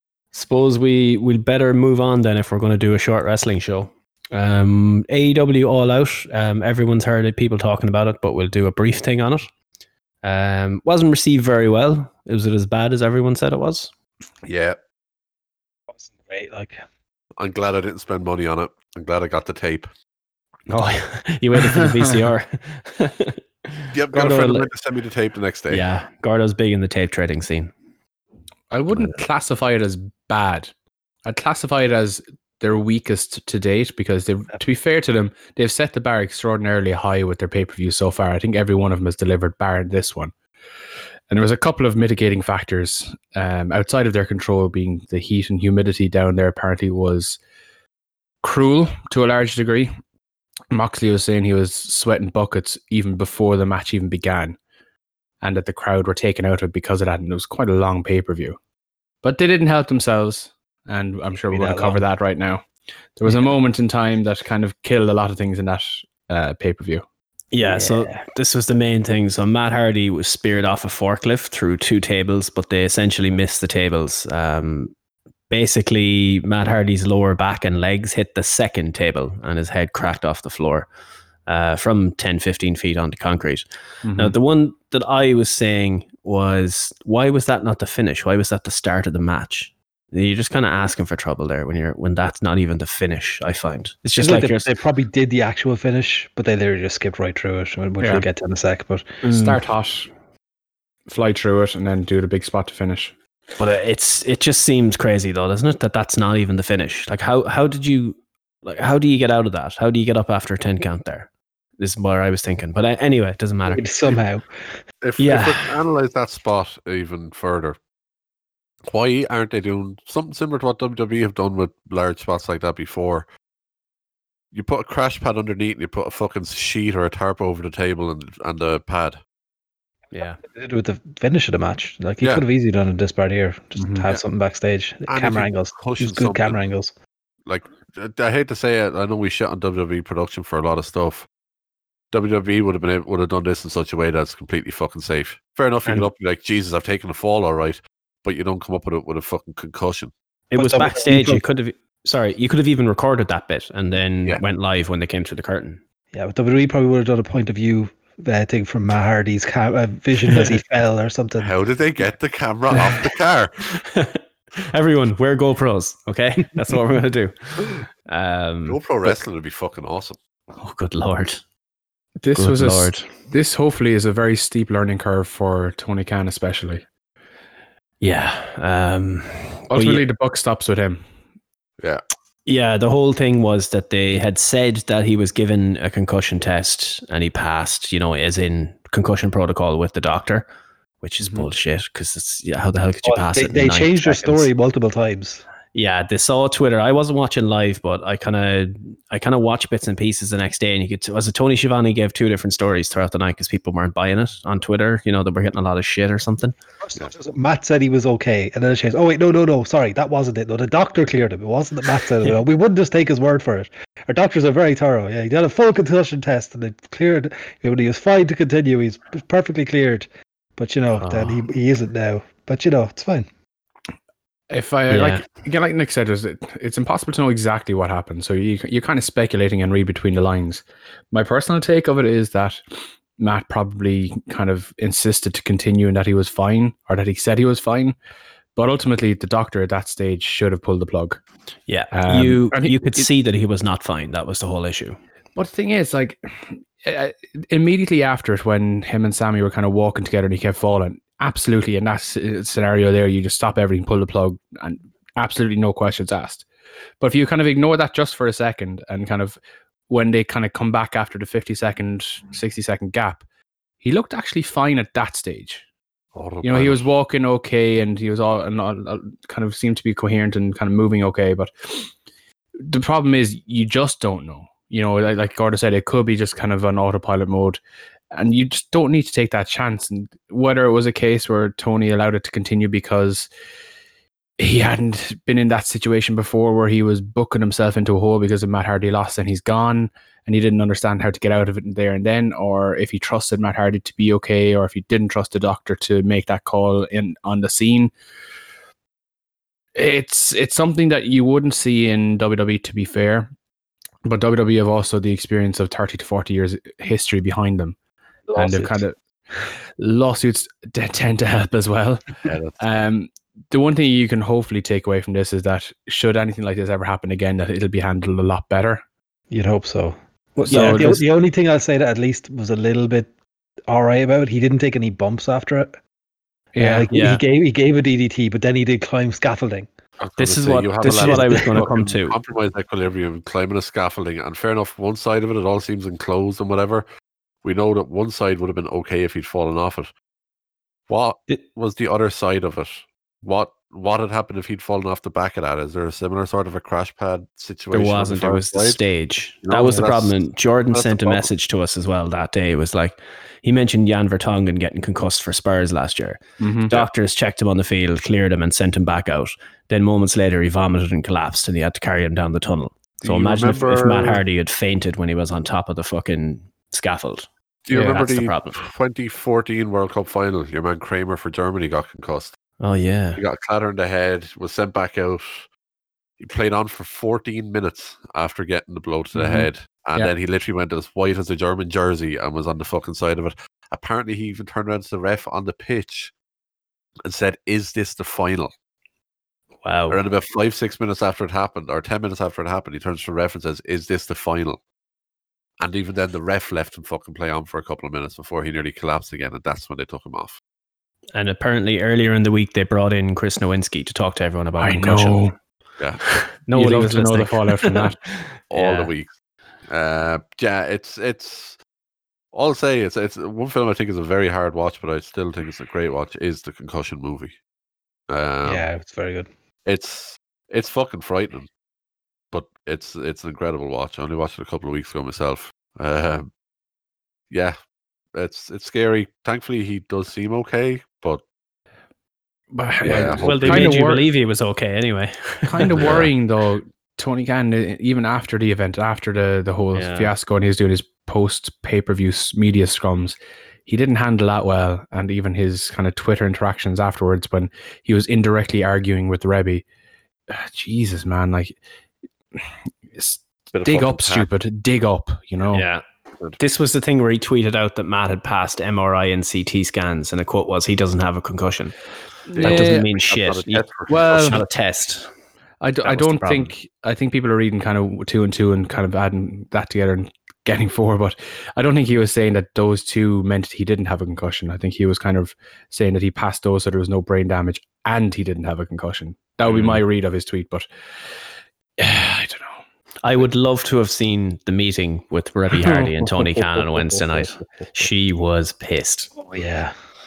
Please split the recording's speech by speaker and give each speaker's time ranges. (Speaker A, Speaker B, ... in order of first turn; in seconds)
Speaker A: 0.3-9.5, 10.2-13.9, 20.7-24.7, 25.7-27.7, 67.5-74.9, 75.5-80.9, 81.5-94.7, 99.2-99.6, 103.6-113.9, 115.2-115.8, 130.1-130.4, 150.5-155.8, 163.8-169.2, 170.6-171.4, 172.3-173.1, 178.0-180.1, 182.4-190.5, 191.0-194.5, 195.7-206.5, 221.0-221.4, 224.9-225.2, 241.7-245.0, 320.5-321.0, 326.9-327.2, 330.2-332.2, 347.7-368.6, 372.6-373.2, 389.6-390.0, 401.1-405.3, 406.1-407.8, 408.5-408.9, 432.9-436.1, 439.7-440.1, 455.5-455.8, 456.4-461.8, 462.4-465.1, 465.8-466.5, 479.5-479.8, 483.0-489.1
Speaker B: 14.4-14.8, 17.4-19.9, 23.9-25.9, 115.0-117.8, 118.9-123.2, 124.5-129.2, 135.1-136.6, 137.5-141.3, 142.1-150.1, 161.4-163.5, 168.7-170.2, 266.1-266.9, 312.2-312.6, 330.0-336.9, 337.4-339.9, 340.9-348.8, 349.4-350.2, 350.7-351.3, 363.0-364.2, 367.6-372.3, 373.1-375.5, 376.2-386.1, 387.1-388.5, 389.9-394.6, 395.6-400.4, 408.5-409.1, 409.7-411.6, 412.3-417.4, 418.1-418.7, 419.6-421.5, 422.3-426.3, 427.3-427.6, 428.1-431.2, 432.8-433.8, 435.8-436.1, 453.5-454.3, 462.3-464.4
Speaker C: 15.9-16.8, 61.5-62.0, 67.6-68.1, 94.2-99.0, 113.7-114.5, 130.4-136.9, 150.6-151.4, 156.1-161.5, 193.0-195.4, 206.8-223.3, 308.3-308.8, 319.3-323.1, 323.7-325.7, 326.6-329.7, 331.0-331.5, 418.4-419.3, 489.2-489.7
Speaker D: 28.7-30.7, 31.2-40.3, 41.3-47.4, 48.4-49.9, 50.7-54.6, 55.4-58.6, 59.2-62.6, 63.2-67.0, 84.0-84.3, 98.0-98.3, 99.3-100.1, 101.1-103.1, 133.8-134.1, 172.2-176.8, 179.7-181.0, 191.2-191.5, 224.5-232.6, 233.2-237.9, 238.6-241.2, 241.9-243.1, 245.3-246.2, 246.8-256.4, 257.0-263.2, 263.8-265.6, 266.4-271.9, 272.6-277.6, 278.1-283.3, 284.4-297.9, 299.7-303.3, 304.0-307.8, 308.3-308.9, 309.8-318.8, 320.4-321.0, 326.5-326.9, 356.4-356.7, 367.7-368.0, 379.2-379.4, 404.6-405.3, 406.5-408.0, 432.5-434.1, 435.5-449.6, 450.3-451.6, 452.9-455.6, 462.3-462.9, 463.9-464.4, 465.6-480.7, 481.8-482.6, 485.6-486.3